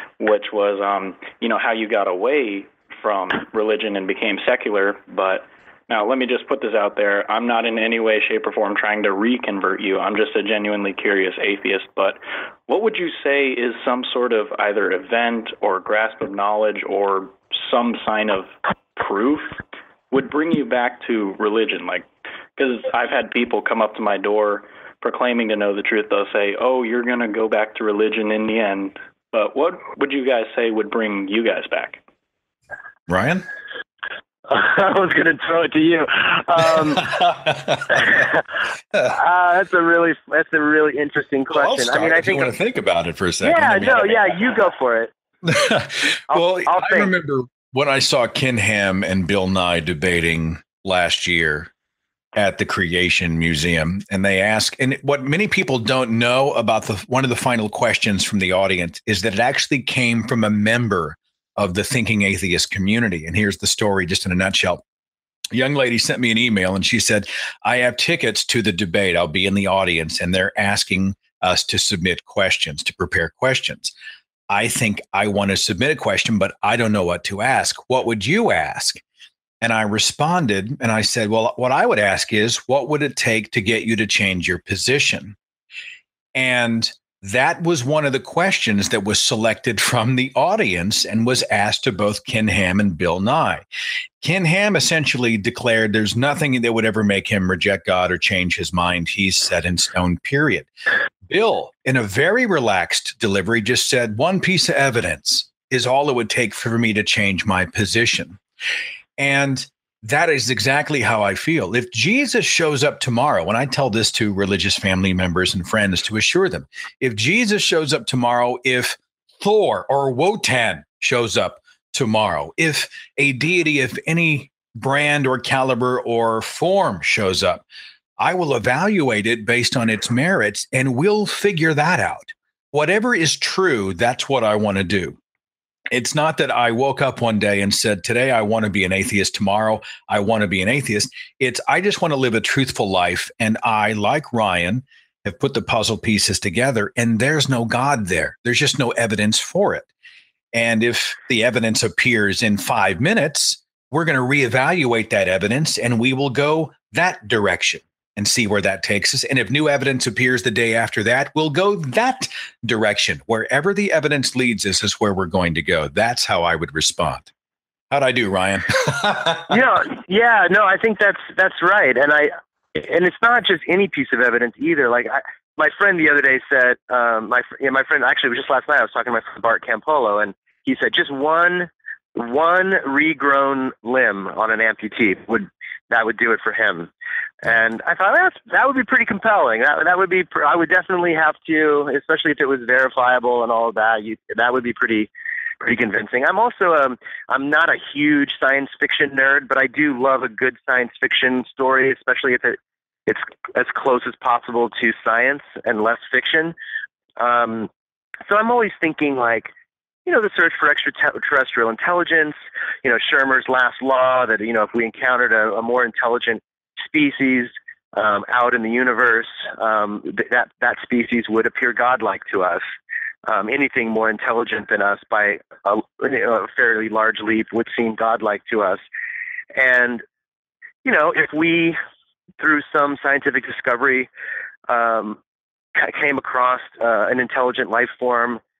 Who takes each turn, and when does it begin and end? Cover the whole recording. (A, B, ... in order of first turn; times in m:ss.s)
0:00.2-0:19.6 A
0:20.1-0:32.0 A
0:33.1-0:33.5 B
0:34.5-0:37.1 C
0:37.0-0:38.2 B
0:37.9-0:38.4 C
0:39.1-0:42.5 C
0:41.5-0:44.5 B
0:43.4-0:45.1 C
0:45.4-0:51.7 B
0:46.3-0:47.1 C
0:52.4-1:04.8 B
1:05.5-1:13.9 B
1:14.5-1:19.0 B
1:19.6-1:25.4 B
1:26.4-1:33.6 B
1:34.2-1:40.7 B
1:41.3-1:48.4 B
1:49.2-2:07.6 B
2:08.2-2:15.2 B
2:15.9-2:29.9 B
2:30.5-2:47.3 B
2:47.9-2:49.6 B
2:49.5-3:06.9 C
3:07.4-3:15.1 C
3:15.6-3:26.6 C
3:27.2-3:27.7 C
3:28.3-3:29.5 C
3:30.1-3:42.6 C
3:43.3-3:48.8 C
3:49.5-3:50.0 C
3:50.8-3:51.8 C
3:52.4-3:54.1 C
3:54.7-3:55.2 C
3:55.8-3:58.4 C